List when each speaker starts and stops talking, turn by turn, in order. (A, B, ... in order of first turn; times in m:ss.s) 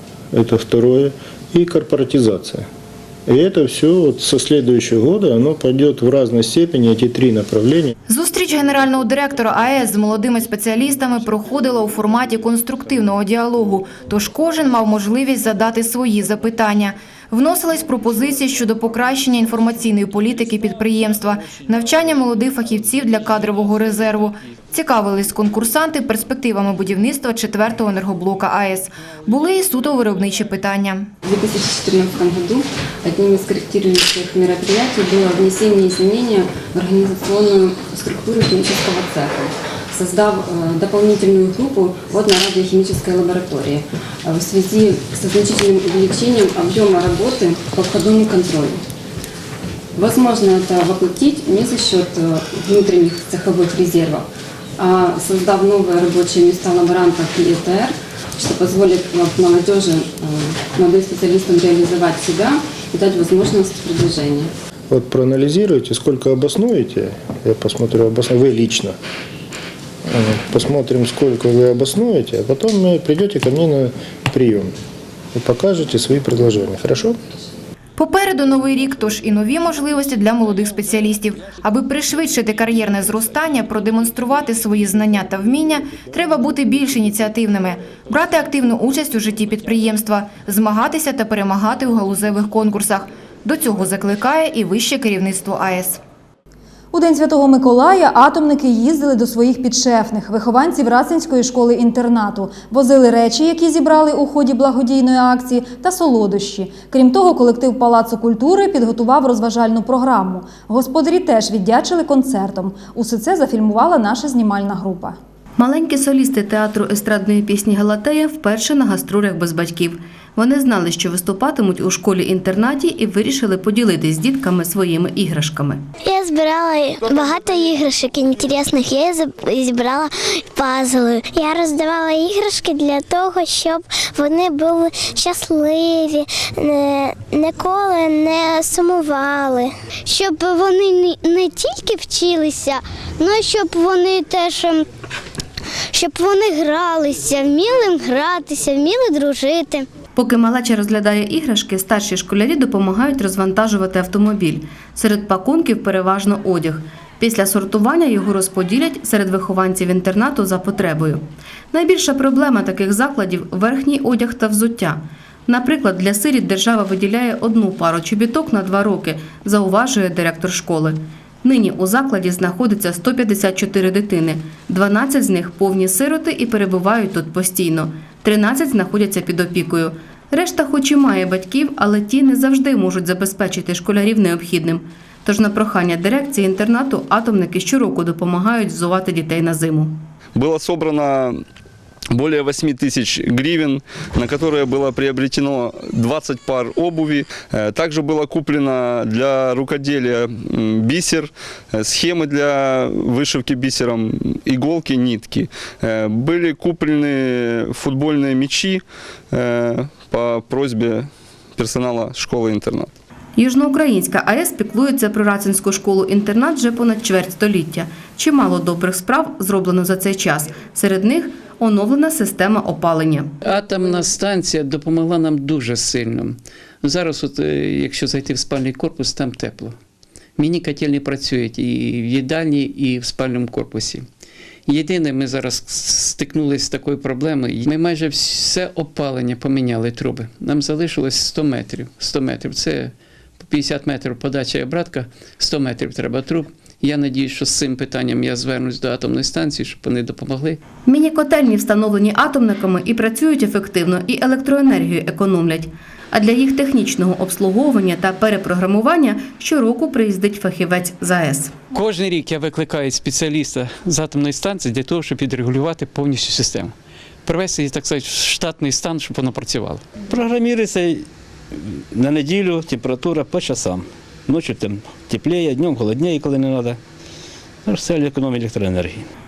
0:00.3-0:02.6 A
0:03.3-0:07.9 A
0:08.1-0:31.1 B
0:31.2-0:48.8 C
0:49.9-0:54.2 C
0:54.8-1:04.5 C
1:04.9-1:09.0 A
1:10.0-1:14.7 A
1:15.3-1:17.2 A
1:18.0-1:36.0 B
1:36.9-1:55.2 D
1:55.6-2:05.8 E
2:06.0-2:24.8 F
2:25.9-2:29.9 F
2:30.2-3:10.0 E
3:10.3-3:11.4 G
3:12.1-3:32.9 G
3:33.4-3:43.3 E
3:43.4-3:49.8 H
3:50.4-3:54.0 H
3:54.6-4:10.6 H
4:10.9-4:21.5 E
4:21.7-4:26.7 H
4:27.2-4:29.8 H
4:30.0-4:36.8 I
4:37.6-4:39.0 I